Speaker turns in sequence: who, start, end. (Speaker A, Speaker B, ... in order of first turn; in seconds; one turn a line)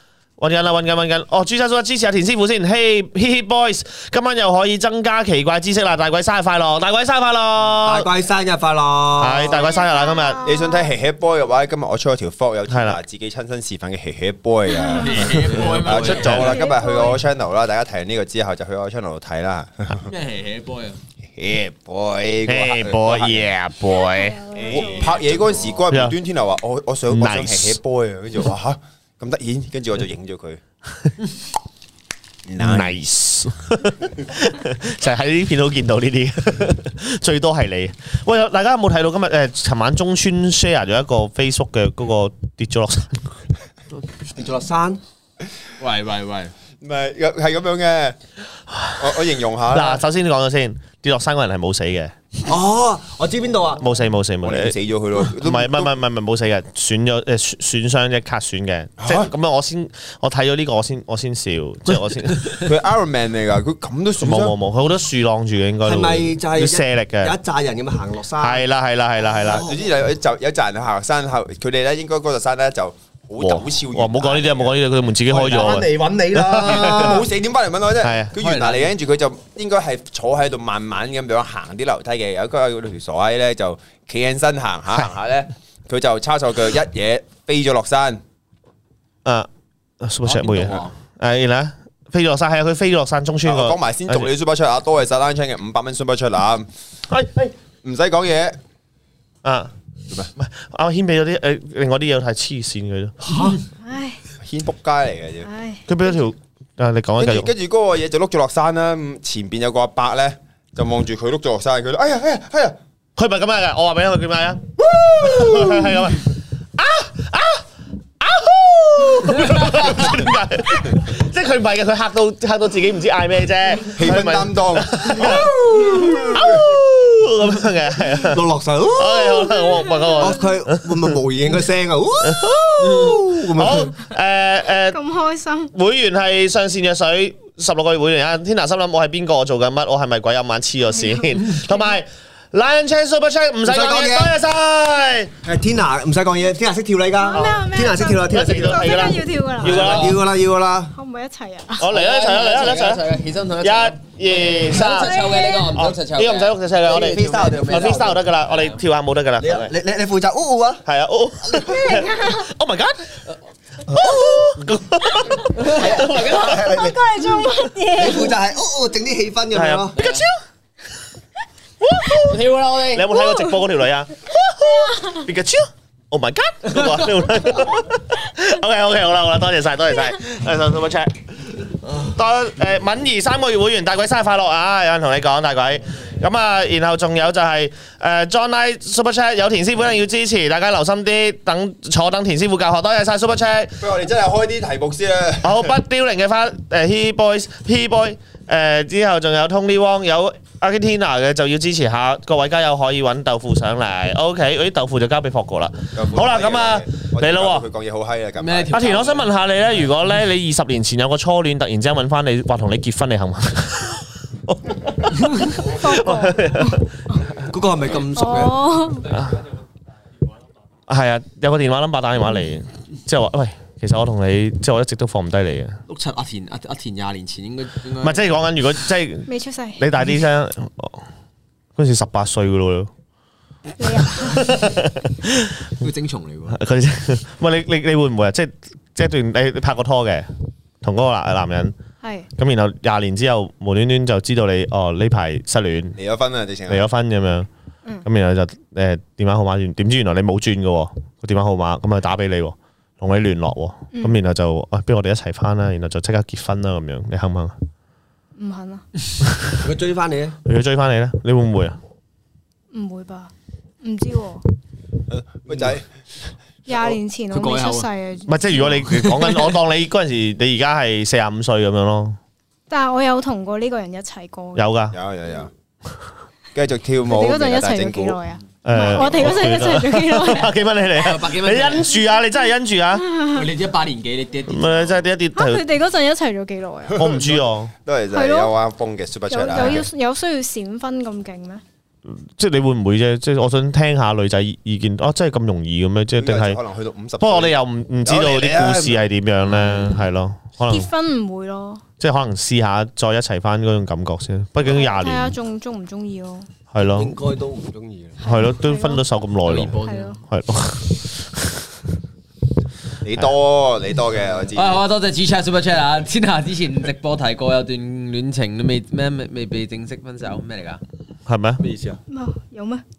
Speaker A: 0.4-8.1
Speaker B: 7.8-9.6
Speaker A: 9.2-10.4
Speaker C: 9.5-10.9
Speaker D: 10.4-20.1
Speaker A: 12.7-13.0
Speaker C: 14.7-15.3
Speaker E: 15.0-16.6
Speaker B: 15.6-16.3
Speaker C: 16.2-17.2
Speaker E: 20.0-21.0
Speaker D: 21.4-23.5
Speaker A: 22.4-24.4
Speaker C: 23.9-25.2
Speaker E: 24.6-25.7
Speaker D: 24.6-30.6
Speaker A: 25.9-26.2
Speaker A: 27.1-27.8
Speaker D: 32.5-32.9
Speaker A: 32.6-43.3
Speaker B: 44.3-45.0
Speaker E: 45.8-46.5
Speaker D: 46.8-48.2
Speaker A: 48.7-49.2
Speaker D: 49.0-50.0
Speaker A: 49.7-52.1
Speaker B: 52.4-53.8
Speaker A: 53.8-62.6
Speaker D: 54.4-55.9
Speaker D: 59.0-59.3
Speaker D: 62.6-64.6
Speaker A: 64.2-67.3
Speaker B: 65.8-68.6
Speaker A: 68.4-69.7
Speaker B: 69.4-69.7
Speaker D: 69.5-74.8
Speaker A: 73.4-77.2
Speaker B: 75.3-77.3
Speaker D: 76.7-88.2
Speaker A: 78.0-78.3
Speaker E: 78.4-78.9
Speaker A: 90.0-94.3
Speaker E: 90.2-90.9
Speaker D: 93.4-96.7
Speaker A: 97.1-97.5
Speaker D: 97.8-98.6
Speaker A: 99.4-99.7
Speaker A: 100.3-103.1
Speaker B: 103.2-103.6
Speaker C: 103.8-104.2
Speaker D: 104.4-105.5
Speaker C: 105.4-106.2
Speaker A: 105.9-107.5
Speaker D: 107.2-112.8
Speaker A: 113.2-117.6
Speaker D: 114.8-115.9
Speaker A: 118.2-130.8
Speaker D: 123.9-126.7
Speaker B: 128.2-129.5
Speaker C: 129.3-130.3
Speaker B: 130.2-133.9
Speaker A: 132.2-135.0
Speaker C: 134.9-135.7
Speaker A: 135.7-145.3
Speaker C: 141.0-141.5
Speaker B: 143.7-144.3
Speaker B: 145.4-149.0
Speaker C: 147.2-150.0
Speaker A: 147.3-150.2
Speaker B: 149.7-150.9
Speaker E: 149.7-150.2
Speaker C: 150.9-151.9
Speaker A: 151.8-153.1
Speaker E: 151.9-158.7
Speaker A: 153.6-159.7
Speaker C: 154.7-155.8
Speaker B: 157.0-158.2
Speaker B: 159.4-160.8
Speaker A: 160.8-163.2
Speaker C: 161.7-162.5
Speaker A: 163.9-166.5
Speaker B: 163.9-164.5
Speaker E: 165.6-166.6
Speaker B: 165.6-167.3
Speaker C: 166.6-168.4
Speaker B: 167.9-170.0
Speaker A: 169.5-170.3
Speaker E: 170.0-170.2
Speaker A: 171.8-181.2
Speaker E: 172.2-173.2
Speaker C: 174.7-175.3
Speaker E: 176.7-177.1
Speaker A: 181.9-193.8
Speaker D: 193.8-195.7
Speaker A: 195.4-207.7
Speaker D: 205.9-209.1
Speaker E: 208.4-209.3
Speaker A: 208.7-216.8
Speaker C: 215.6-216.8
Speaker B: 217.3-218.6
Speaker C: 218.1-219.1
Speaker A: 219.1-219.4
Speaker A: 220.9-225.8
Speaker E: 225.9-228.3
Speaker A: 228.0-231.0
Speaker C: 229.3-229.8
Speaker A: 231.8-232.9
Speaker C: 233.8-234.5
Speaker A: 234.1-235.6
Speaker E: 235.8-236.6
Speaker A: 236.5-240.3
Speaker A: 240.8-241.7
Speaker C: 242.0-242.3
Speaker A: 242.4-246.0
Speaker D: 245.9-246.9
Speaker A: 246.7-247.5
Speaker A: 248.0-257.5
Speaker C: 253.9-254.2
Speaker C: 258.4-258.8
Speaker B: 259.6-260.4
Speaker A: 260.4-261.8
Speaker C: 262.7-264.4
Speaker D: 265.1-265.9
Speaker C: 266.7-268.4
Speaker E: 267.3-267.9
Speaker A: 268.3-272.2
Speaker E: 268.6-269.6
Speaker C: 272.7-274.7
Speaker A: 274.5-275.0
Speaker D: 274.9-275.5
Speaker D: 276.5-278.2
Speaker C: 277.1-280.5
Speaker A: 278.6-283.0
Speaker E: 281.0-281.9
Speaker C: 283.0-283.4
Speaker E: 283.3-285.0
Speaker A: 284.5-285.6
Speaker C: 285.3-287.0
Speaker D: 286.9-289.9
Speaker A: 286.9-287.7
Speaker C: 288.1-288.5
Speaker C: 289.3-291.6
Speaker A: 289.6-289.9
Speaker A: 292.1-296.6
Speaker D: 296.2-299.0
Speaker A: 297.2-300.9
Speaker E: 299.5-300.0
Speaker C: 300.7-301.8
Speaker A: 302.0-305.3
Speaker C: 304.6-306.5
Speaker A: 306.7-307.2
Speaker B: 306.9-308.2
Speaker C: 308.2-309.0
Speaker A: 308.2-309.8
Speaker E: 309.4-310.2
Speaker C: 309.8-310.2
Speaker A: 310.3-311.7
Speaker D: 313.0-314.8
Speaker E: 314.5-320.8
Speaker A: 321.3-321.6
Speaker B: 321.6-322.0
Speaker C: 322.1-322.8